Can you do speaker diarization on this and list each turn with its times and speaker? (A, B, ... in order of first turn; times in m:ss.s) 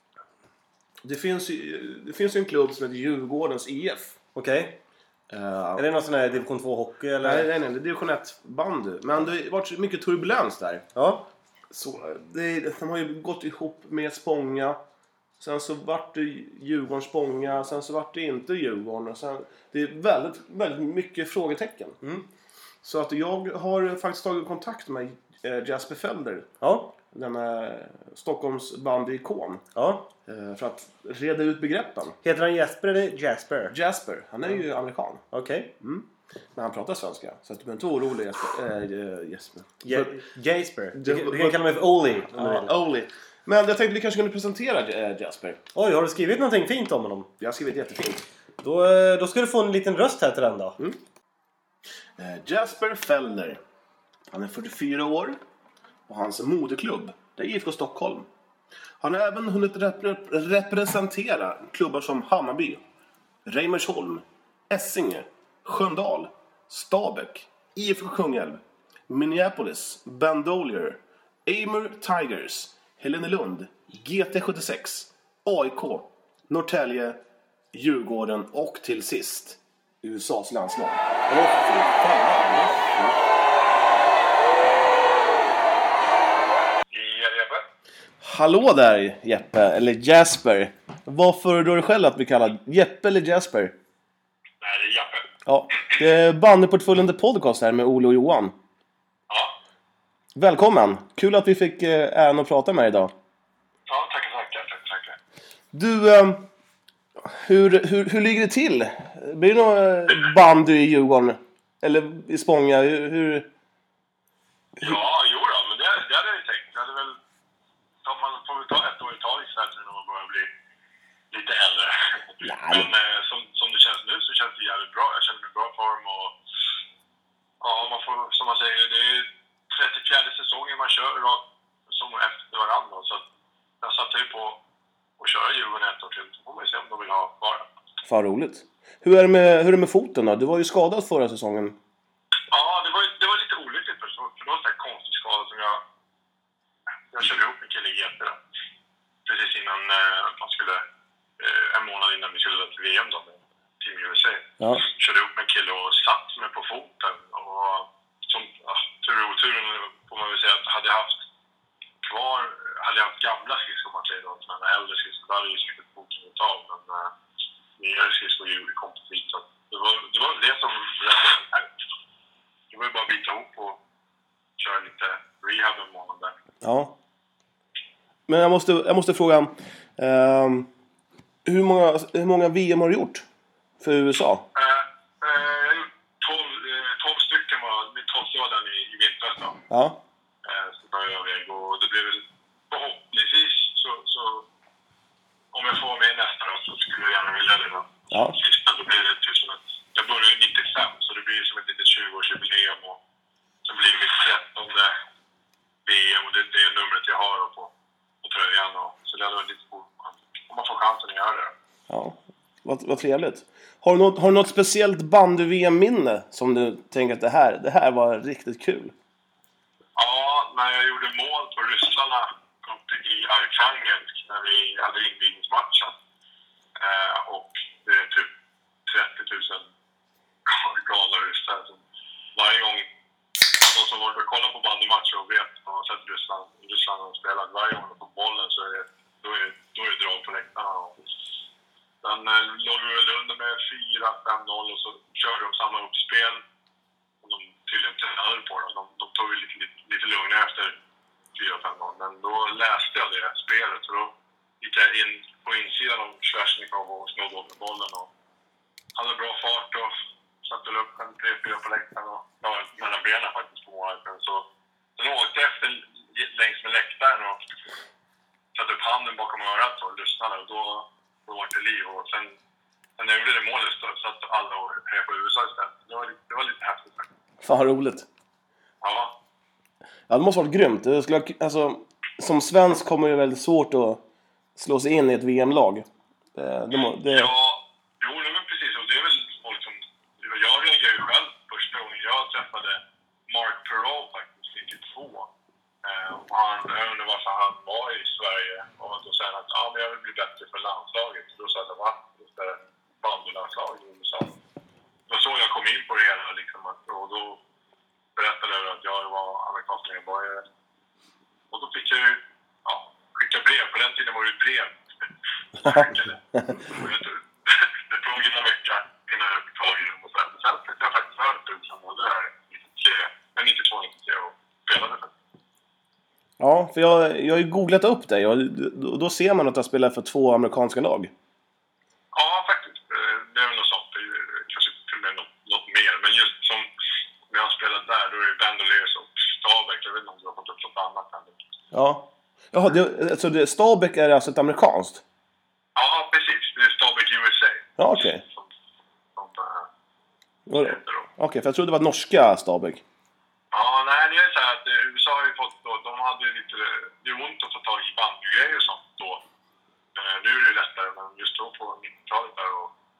0:01.0-0:04.2 A
0:04.4-0:04.8 B
0:05.3-0:05.8 A
0:05.8-0:07.5 B
0:07.2-0:10.9 A
0:11.0-0:11.3 B
0:11.7-0:14.8 A
0:15.4-0:22.0 A
0:22.8-0:26.5 A
0:26.6-0:26.9 B
0:27.1-0:29.6 A
0:29.8-0:30.1 B
0:30.3-0:32.2 A
0:32.2-0:33.8 B
0:33.7-0:35.2 A
0:35.3-0:35.7 B
0:35.8-0:40.3 A
0:39.8-0:42.7 B
0:40.9-0:41.6 A
0:42.3-0:45.6 A
0:45.8-0:47.3 B
0:47.4-0:48.2 A
0:48.6-0:50.8 B
0:52.2-0:53.6 A
0:54.3-0:55.4 A
0:56.1-0:58.3 A
0:59.0-1:02.8 A
1:03.5-1:17.2 A
1:17.7-1:23.2 A
1:26.9-1:27.6 C
1:28.2-1:33.7 A
1:34.6-1:35.3 C
1:35.5-1:38.5 A
1:39.3-1:39.5 C
1:40.4-1:43.1 A
1:43.9-1:45.2 C
1:45.7-1:46.4 A
1:47.2-1:53.5 A
1:54.8-1:57.2 C
1:58.0-2:00.5 C
2:01.3-2:06.3 C
2:02.4-2:02.9 A
2:07.6-2:13.2 C
2:13.8-2:14.6 C
2:15.2-2:17.7 C
2:18.0-2:21.8 A
2:22.5-2:25.8 C
2:27.1-2:28.4 C
2:29.3-2:30.8 C
2:31.4-2:41.1 C
2:42.0-2:47.1 C
2:47.8-2:51.7 C
2:52.7-2:53.8 C
2:54.6-2:56.4 C
2:56.6-2:56.9 A
2:58.3-3:00.7 A
3:01.5-3:03.2 A
3:03.8-3:04.4 A
3:04.6-3:09.6 C
3:09.7-3:10.0 A
3:10.4-3:14.4 C
3:15.5-3:23.0 C
3:23.6-3:24.9 C
3:25.9-3:27.7 C
3:28.2-3:31.5 C
3:31.9-3:38.9 A
3:40.0-3:45.9 C
3:46.8-3:48.3 C
3:48.9-3:49.7 C
3:50.5-3:51.8 C
3:52.4-3:52.9 C
3:53.6-4:01.0 C
4:02.0-4:06.4 C
4:07.2-4:10.8 C
4:11.4-4:18.1 C
4:19.0-4:19.9 C
4:20.4-4:24.5 C
4:25.0-4:27.4 C
4:28.5-4:32.4 C
4:33.0-4:37.1 C
4:37.4-4:38.1 A
4:38.8-4:39.1 C
4:40.1-4:44.0 A
4:44.6-4:47.3 A
4:47.0-4:55.3 C
4:55.8-5:04.4 C
5:05.1-5:07.4 C
5:08.2-5:10.4 C
5:11.5-5:14.8 C
5:15.6-5:25.1 C
5:15.6-5:16.6 A
5:26.4-5:31.1 A
5:32.1-5:36.7 C
5:37.3-5:41.4 C
5:41.7-5:45.0 A
5:45.8-5:48.5 C
5:47.8-5:48.2 A
5:49.2-5:49.7 C
5:50.5-5:52.8 A
5:50.6-5:51.1 C
5:53.5-5:59.2 C
6:00.0-6:02.7 C